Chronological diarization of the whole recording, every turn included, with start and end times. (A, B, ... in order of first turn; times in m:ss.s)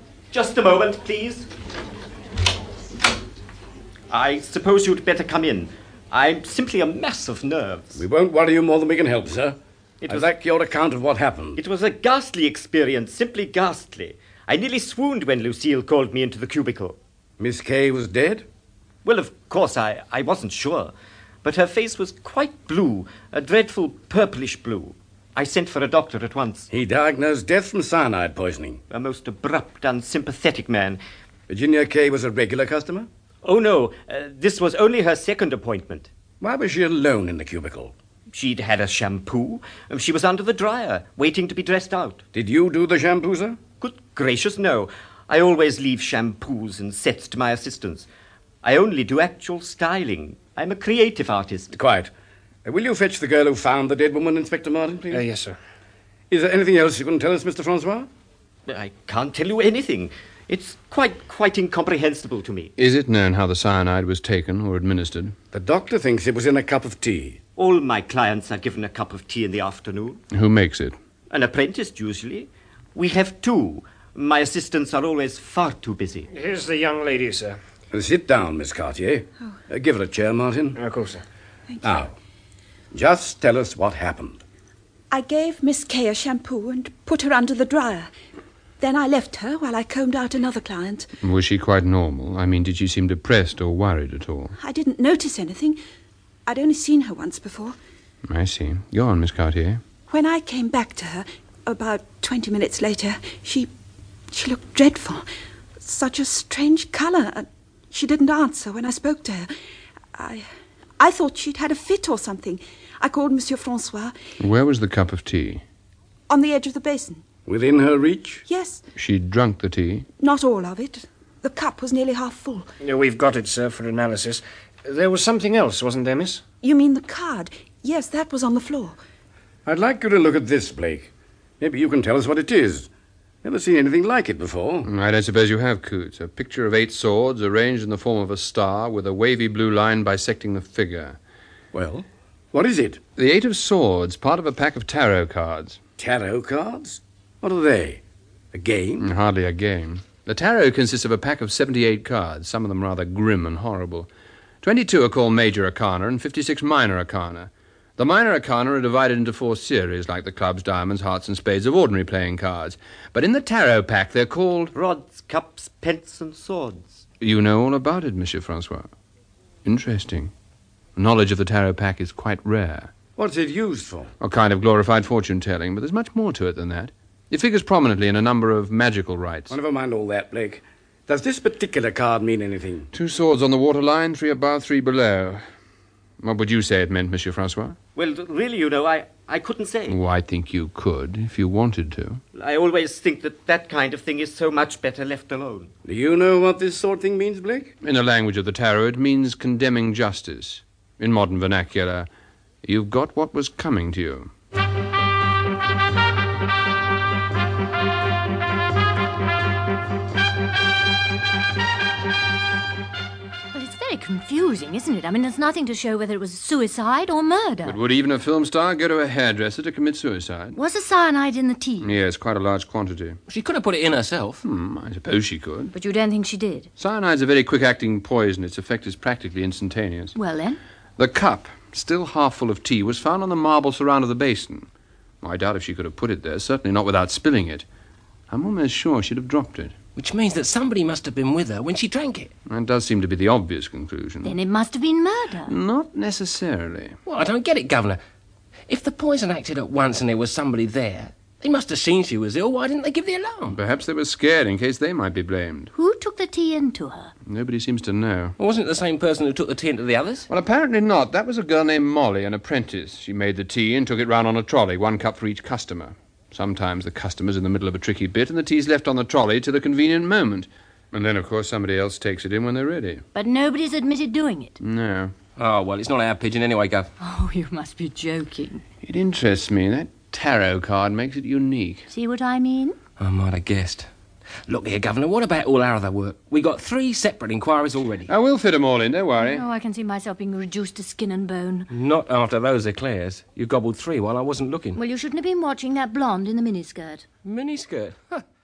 0:00.3-0:01.5 A
0:04.1-0:08.0 A
0:08.0-0:09.6 B
0:10.0-0:10.3 A
0:10.1-0:11.6 B
0:11.6-0:17.0 A
0:17.4-0:18.5 B
0:19.0-0:20.9 A
0:21.4-0:26.7 A
0:26.7-0:28.8 B
0:28.9-0:31.0 A
0:31.5-0:33.1 B
0:33.4-0:36.1 A
0:36.4-0:37.9 B
0:38.3-0:42.2 A
0:42.3-0:43.6 B
0:43.8-0:48.1 A
0:48.6-0:51.7 A
0:51.7-0:52.1 B
0:52.6-0:55.3 B
0:55.1-0:55.6 C
0:56.3-0:58.1 B
0:58.7-1:02.7 A
1:02.8-1:05.4 D
1:05.5-1:07.4 B
1:07.6-1:10.2 A
1:10.3-1:11.0 D
1:11.3-1:16.3 A
1:16.3-1:17.6 C
1:17.9-1:20.8 B
1:20.8-1:21.2 C
1:21.8-1:22.1 B
1:22.9-1:24.4 B
1:25.1-1:28.1 E
1:28.8-1:31.2 E
1:31.2-1:34.6 D
1:34.6-1:35.8 E
1:36.5-1:37.8 E
1:38.3-1:39.8 D
1:40.1-1:43.7 E
1:44.3-1:45.3 E
1:45.8-1:49.5 E
1:50.2-1:50.4 E
1:51.0-1:54.1 E
1:54.4-1:55.6 D
1:56.3-1:57.2 E
1:57.5-1:58.4 B
1:58.5-1:58.8 E
1:59.0-2:00.1 D
2:00.2-2:02.7 E
2:02.8-2:06.4 C
2:06.6-2:09.0 E
2:09.7-2:12.9 B
2:13.4-2:14.9 B
2:14.8-2:21.2 D
2:21.7-2:23.0 B
2:23.2-2:25.8 D
2:26.0-2:28.0 B
2:28.5-2:29.1 B
2:29.0-2:34.1 D
2:34.6-2:44.7 D
2:44.8-2:47.0 A
2:47.2-2:48.9 D
2:49.6-2:50.3 D
2:51.0-2:52.9 D
2:53.2-2:54.1 B
2:54.2-2:59.5 D
2:59.5-3:02.9 B
3:02.9-3:05.4 D
3:06.2-3:07.8 D
3:08.0-3:10.0 A
3:09.9-3:12.2 D
3:12.4-3:15.7 A
3:15.8-3:17.7 B
3:17.8-3:22.1 D
3:22.6-3:24.3 D
3:33.5-3:37.8 F
3:37.6-3:40.6 D
3:40.6-3:41.9 F
3:41.8-3:43.2 D
3:43.3-3:44.4 G
3:44.4-3:45.7 D
3:45.7-3:46.7 F
3:46.8-3:50.2 D
3:50.2-3:50.6 F
3:51.0-3:54.7 D
3:55.2-3:57.6 D
3:58.3-3:59.8 D
4:00.0-4:02.3 G
4:02.5-4:04.4 D
4:04.2-4:05.5 F
4:05.5-4:07.0 D
4:07.1-4:08.0 G
4:08.7-4:13.6 G
4:13.5-4:15.7 D
4:15.8-4:17.1 F
4:17.3-4:18.4 D
4:18.4-4:20.3 G
4:20.3-4:33.0 D
4:33.2-4:34.6 F
4:34.6-4:35.1 D
4:35.4-4:36.9 G
4:37.0-4:38.6 F
4:38.8-4:41.9 D
4:41.9-4:42.8 F
4:43.0-4:43.9 G
4:44.5-4:48.1 G
4:48.1-4:49.4 D
4:49.2-4:51.7 F
4:51.7-4:54.8 G
4:54.8-4:57.1 F
4:57.2-4:58.2 G